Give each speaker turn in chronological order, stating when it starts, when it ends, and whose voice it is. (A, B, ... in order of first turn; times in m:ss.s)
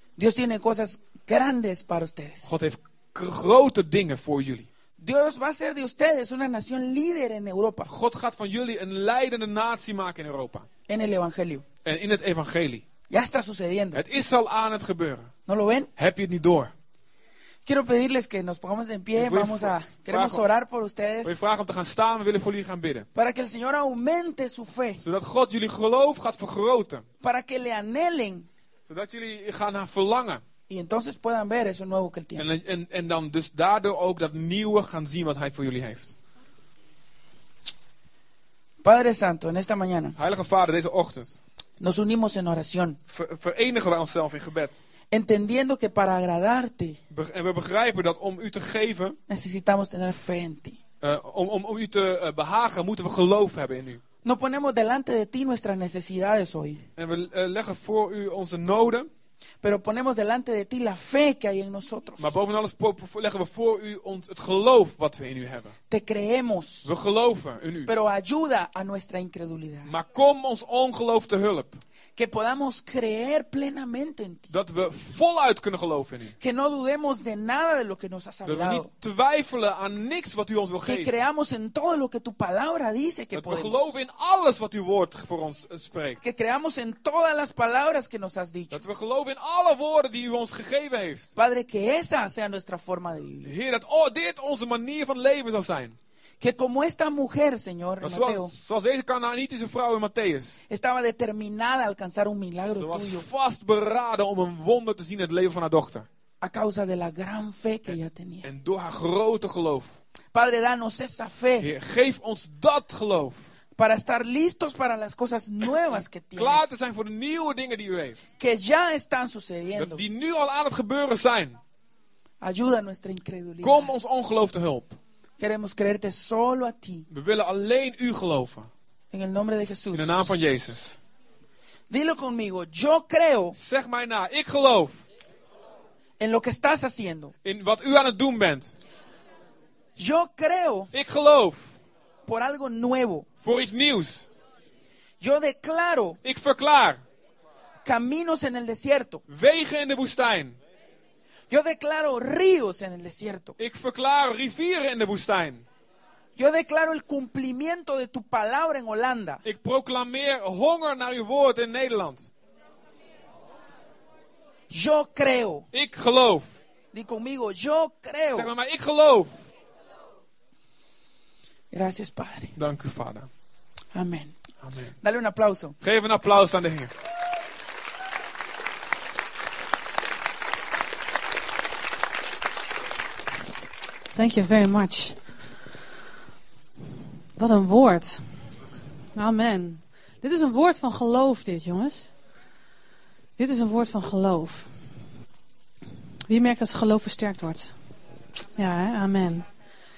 0:00.2-0:02.5 A
0:02.4-0:04.7 B
0:05.0-0:07.9 A
0:07.9-0:10.7 B
0:10.9-0:11.6 A
0:11.8-0:12.8 B
0:13.1-0:14.0 A
0:13.9-0:15.3 B
0:15.5-0:15.9 A
0:16.0-0:16.7 B
0:17.7-0:21.4 A
0:19.1-0:20.5 B
0:21.2-0:23.1 B
0:23.1-0:25.0 A
0:25.0-0:27.1 B
0:27.2-0:28.5 A
0:28.9-0:30.4 B
0:30.7-0:32.5 A
0:32.4-0:36.1 B
0:38.8-0:40.2 A
0:40.2-0:41.4 B
0:41.8-0:43.0 A
0:43.1-0:44.8 B
0:45.1-0:47.0 A
0:47.1-0:49.2 B
0:49.3-0:50.8 A
0:51.0-0:54.0 B
0:54.2-0:56.9 A
0:57.0-0:59.1 B
0:59.6-1:02.4 A
1:02.2-1:05.8 B
1:05.9-1:06.9 A
1:06.8-1:07.9 B
1:07.9-1:09.9 A
1:09.9-1:11.8 B
1:12.2-1:14.5 A
1:14.5-1:16.4 B
1:16.4-1:18.9 A
1:18.4-1:21.1 B
1:20.8-1:24.0 A
1:23.3-1:26.2 B
1:26.2-1:28.8 A
1:28.7-1:31.3 B
1:31.4-1:33.5 A
1:33.4-1:36.0 B
1:36.4-1:38.5 A
1:38.0-1:40.6 B
1:40.7-1:43.3 A
1:42.7-1:46.1 B
1:46.4-1:48.5 A
1:47.9-1:50.0 B
1:50.3-1:51.7 A
1:51.6-1:53.4 B
1:53.8-1:56.7 A
1:55.9-1:58.2 B
1:58.4-2:00.0 A
1:59.8-2:01.6 B
2:02.4-2:03.9 A
2:03.6-2:05.0 B
2:05.4-2:07.1 A
2:07.1-2:08.7 B
2:09.1-2:10.4 A
2:09.9-2:11.0 B
2:11.9-2:13.6 A
2:13.6-2:15.0 B
2:16.2-2:17.4 A
2:17.4-2:18.7 B
2:20.0-2:20.9 A
2:20.9-2:21.8 B
2:22.3-2:23.3 A
2:23.4-2:24.3 B
2:25.2-2:26.2 A
2:26.2-2:27.0 B
2:27.8-2:29.2 A
2:29.3-2:30.6 B
2:31.5-2:33.6 A
2:33.6-2:35.7 B
2:36.4-2:39.4 A
2:39.4-2:42.3 B
2:44.7-2:45.7 A
2:45.7-2:46.5 B
2:46.9-2:48.5 A
2:48.3-2:49.4 B
2:51.7-2:52.6 A
2:52.6-2:53.3 B
2:53.9-2:54.4 A
2:54.6-2:55.0 B
2:55.0-2:55.8 A
2:55.8-2:56.9 B
3:04.1-3:05.2 C
3:07.4-3:08.3 C
3:09.1-3:12.1 C
3:13.4-3:14.7 C
3:16.3-3:17.7 C
3:18.6-3:19.5 C